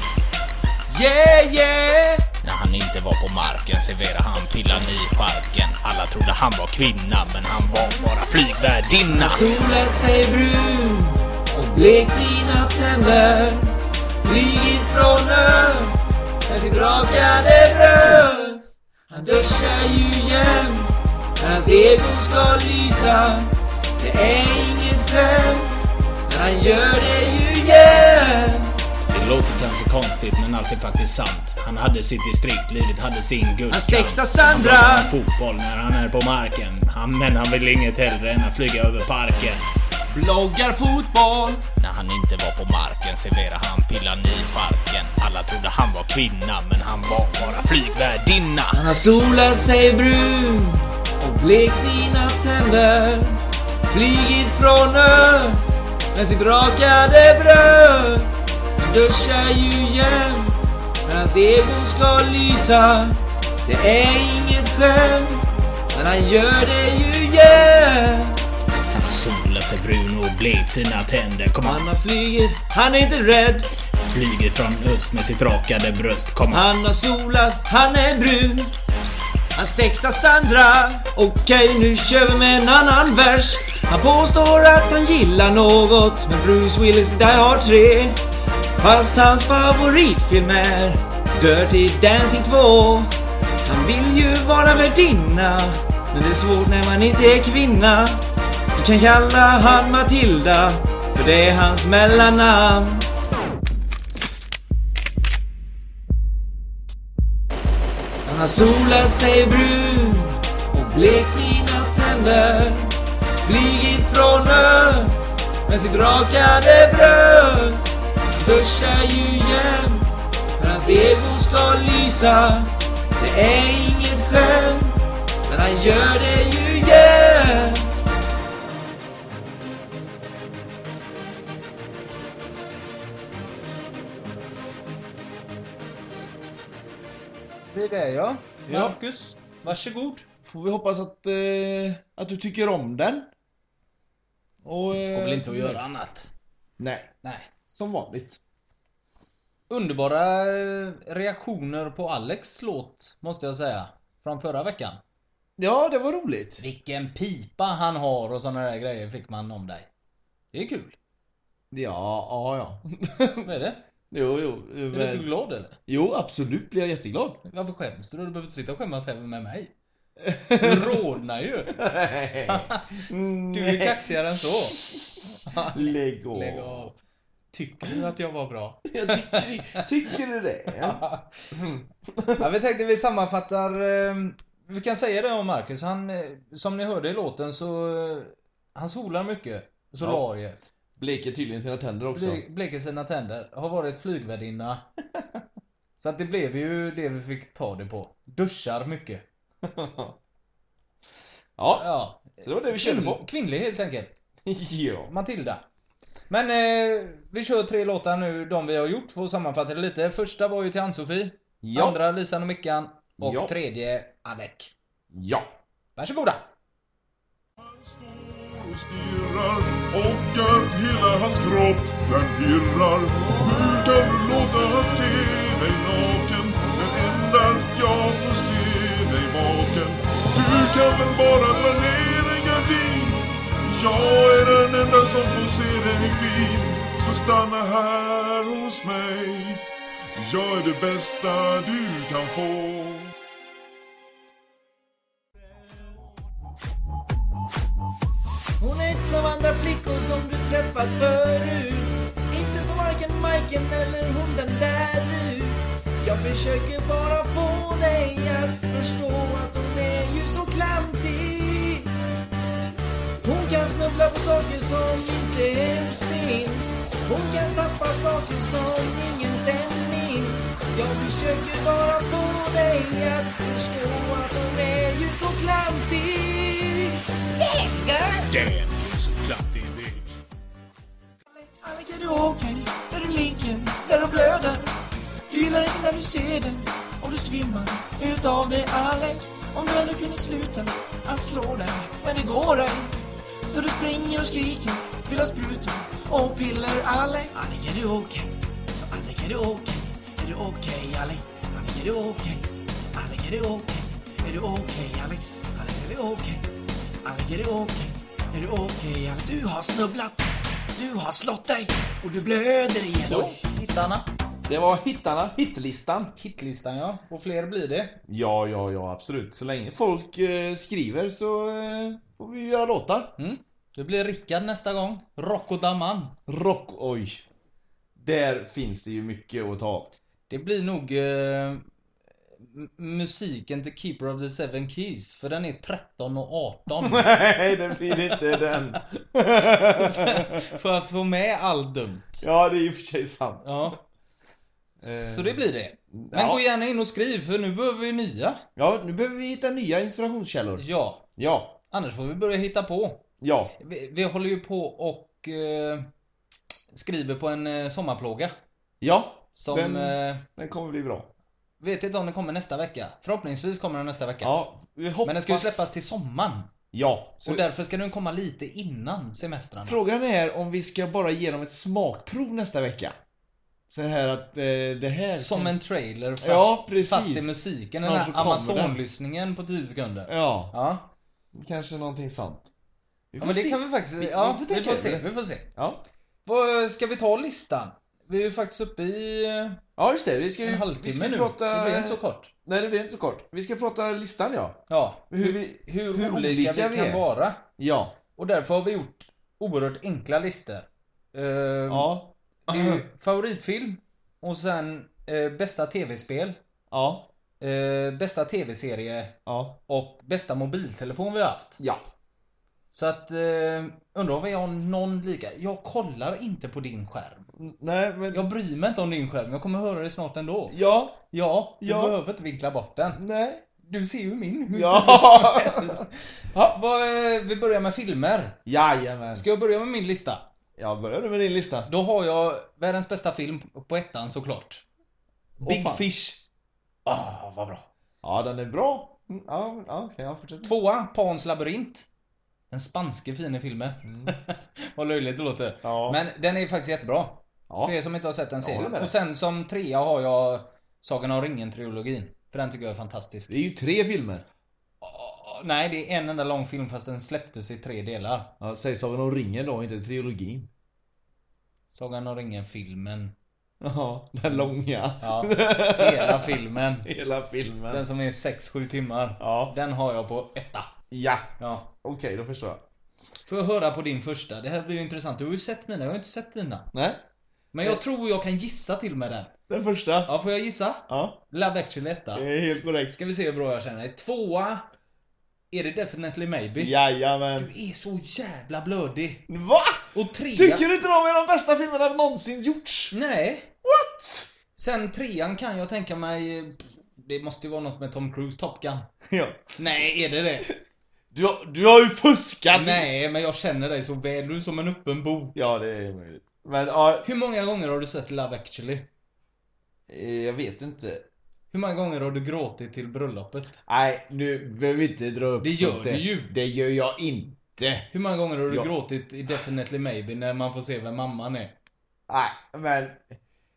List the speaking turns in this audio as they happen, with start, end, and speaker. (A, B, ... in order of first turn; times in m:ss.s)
0:00.9-0:02.3 A
0:02.4-0:09.2 B
0:02.5-0:09.5 C
0:09.2-0:28.7 A
0:29.1-0:39.6 C
0:30.4-0:31.3 B
0:33.7-0:35.1 A
0:35.1-0:39.6 B
0:40.1-0:41.6 A
0:41.8-0:48.8 C
0:41.8-0:48.6 B
0:48.7-1:08.4 A
1:09.0-1:11.7 B
1:09.0-1:11.8 C
1:11.6-1:13.7 A
1:14.1-1:16.5 B
1:14.1-1:16.6 C
1:16.5-1:18.8 A
1:19.6-1:28.2 A
1:28.8-1:33.1 A
1:33.6-1:38.2 A
1:38.8-1:43.1 A
1:48.2-2:07.9 A
2:17.7-2:20.3 C
2:18.7-2:19.0 D
2:20.4-2:23.3 D
2:24.6-2:25.8 D
2:25.1-2:26.3 C
2:26.8-2:27.1 D
2:27.2-2:27.5 C
2:27.6-2:28.4 D
2:29.7-2:35.0 C
2:35.6-2:36.6 D
2:36.6-2:39.9 C
2:40.5-2:41.0 C
2:41.7-2:43.5 D
2:43.4-2:43.8 C
2:44.1-2:45.3 D
2:44.9-2:45.8 C
2:45.9-2:47.4 D
2:47.4-2:49.7 C
2:50.2-2:51.0 D
2:50.6-2:51.8 C
2:51.7-2:56.9 D
2:52.5-2:52.8 C
2:53.5-2:54.8 C
2:55.4-2:57.0 C
2:57.5-2:59.8 C
2:58.9-3:02.5 D
3:00.8-3:01.3 C
3:02.4-3:10.6 C
3:10.0-3:10.2 D
3:11.0-3:12.4 D
3:12.1-3:14.9 C
3:16.0-3:19.2 C
3:19.6-3:20.2 D
3:21.6-3:23.3 D
3:21.8-3:24.1 C
3:24.4-3:25.1 D
3:25.1-3:25.6 C
3:26.3-3:34.7 C
3:31.6-3:32.0 D
3:33.2-3:33.6 D
3:35.1-3:35.5 D
3:36.0-3:36.4 C
3:37.6-3:59.6 E
4:00.2-4:03.1 E
4:08.6-4:21.9 A
4:23.2-4:38.3 A
4:38.3-4:40.0 C
4:41.3-4:44.7 A
4:45.3-5:06.5 A
5:07.0-5:13.3 A
5:13.0-5:14.1 C
5:13.1-5:13.4 D
5:14.5-5:16.2 D
5:16.2-5:18.0 C
5:18.1-5:23.1 D
5:23.2-5:26.1 C
5:26.3-5:27.2 D
5:28.0-5:29.9 D
5:30.3-5:31.6 C
5:32.4-5:37.2 C
5:36.8-5:40.5 D
5:37.9-5:38.5 C
5:39.5-5:42.2 C
5:42.2-5:43.7 D
5:43.4-5:43.8 C
5:44.8-5:46.4 D
5:44.8-5:48.5 C
5:48.6-5:50.6 D
5:50.6-5:51.0 C
5:51.2-5:51.6 D
5:51.7-5:53.0 C
5:53.2-5:53.6 D
5:53.6-5:55.9 C
5:56.7-5:58.3 C
5:58.8-6:01.1 D
5:59.4-6:00.2 C
6:01.6-6:04.3 C
6:04.2-6:05.7 D
6:05.0-6:06.5 C
6:06.7-6:07.4 D
6:07.2-6:09.8 C
6:09.6-6:13.0 D
6:13.7-6:15.6 D
6:15.2-6:20.9 C
6:16.2-6:18.8 D
6:20.1-6:20.5 D
6:21.3-6:22.5 D
6:23.1-6:25.8 D
6:23.2-6:25.5 C
6:26.2-6:29.6 C
6:29.8-6:37.0 D
6:30.4-6:32.3 C
6:34.7-6:37.4 C
6:37.6-6:38.0 D
6:38.2-6:41.9 C
6:41.7-6:42.8 D
6:42.5-6:46.4 C
6:46.7-6:47.1 D
6:47.4-6:51.6 C
6:49.2-6:49.6 D
6:52.7-6:57.3 C
6:57.4-6:58.3 D
6:58.1-7:00.6 C
7:00.5-7:01.0 D
7:01.1-7:03.0 C
7:01.6-7:02.0 D
7:03.0-7:03.4 D
7:03.6-7:08.4 C
7:04.5-7:06.5 D
7:08.4-7:09.2 D
7:09.1-7:10.3 C
7:10.6-7:11.7 D
7:11.7-7:14.6 C
7:15.4-7:15.8 D
7:15.4-7:16.2 C
7:16.8-7:17.7 C
7:18.0-7:20.5 D
7:20.4-7:21.9 C
7:22.5-7:33.3 C
7:23.8-7:24.2 D
7:25.6-7:26.0 D
7:27.5-7:27.7 D
7:28.4-7:28.9 D
7:33.3-7:34.2 D
7:34.8-7:38.3 C
7:38.4-7:40.5 D
7:41.7-7:43.1 C
7:43.6-7:47.9 D
7:45.0-7:46.9 C
7:47.7-7:50.8 C
7:49.2-7:49.5 D
7:50.9-7:52.6 D
7:51.4-7:51.7 C
7:53.3-7:56.7 C
7:56.7-7:57.0 D
7:57.5-7:59.4 C
7:59.5-8:00.1 D
8:00.0-8:02.2 C
8:00.9-8:01.2 D
8:02.1-8:03.0 D
8:02.9-8:04.7 C
8:05.5-8:06.7 C
8:06.6-8:07.5 D
8:07.4-8:09.3 C
8:09.3-8:12.9 D
8:09.9-8:10.7 C
8:12.9-8:13.6 C
8:13.6-8:14.3 D
8:14.5-8:18.9 C
8:19.1-8:19.6 D
8:19.6-8:20.5 C
8:21.1-8:22.9 D
8:22.5-8:25.4 C
8:25.3-8:27.1 D
8:27.0-8:28.9 C
8:29.9-8:31.0 D
8:31.5-8:33.6 C
8:33.7-8:37.9 D
8:35.4-8:36.3 C
8:37.9-8:41.6 C
8:42.1-8:43.0 D